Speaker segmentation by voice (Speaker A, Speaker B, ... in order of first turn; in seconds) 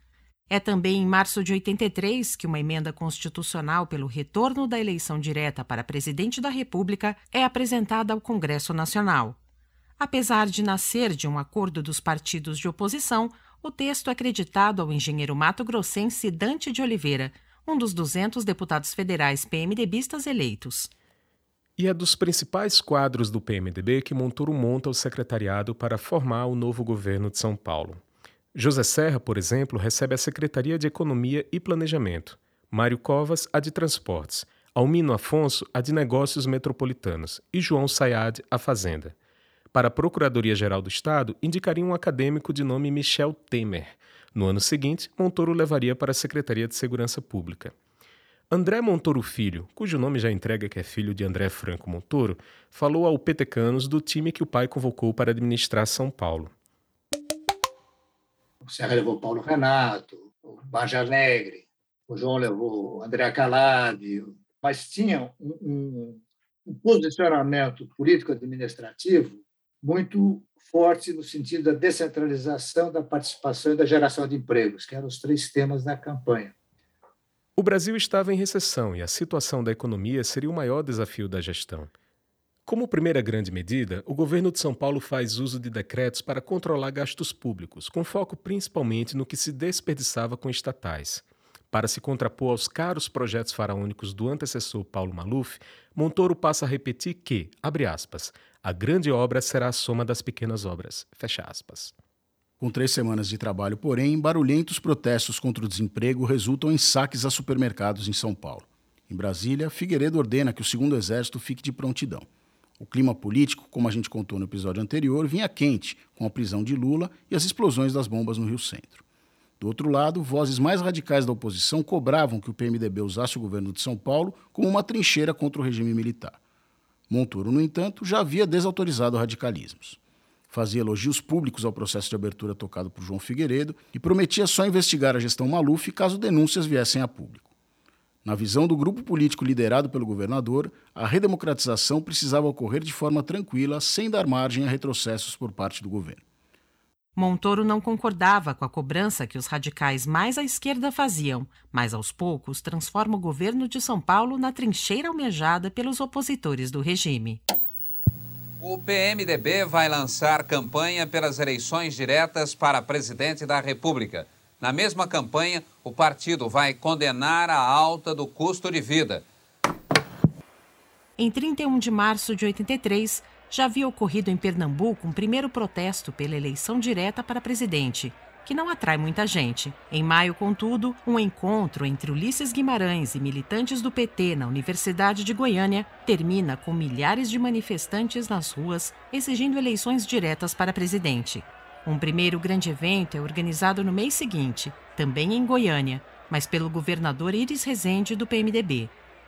Speaker A: 0.5-9.4, 10.0-20.9, 147.2-157.4, 171.2-198.9
Speaker B: 21.8-28.0, 28.5-39.1, 39.7-47.7, 48.5-56.5, 77.6-81.9, 82.7-101.9
Speaker C: 58.6-76.5
Speaker D: 102.6-112.2, 112.8-119.0, 119.6-126.4, 127.1-130.0, 130.5-137.5, 138.2-146.2
Speaker E: 158.6-169.2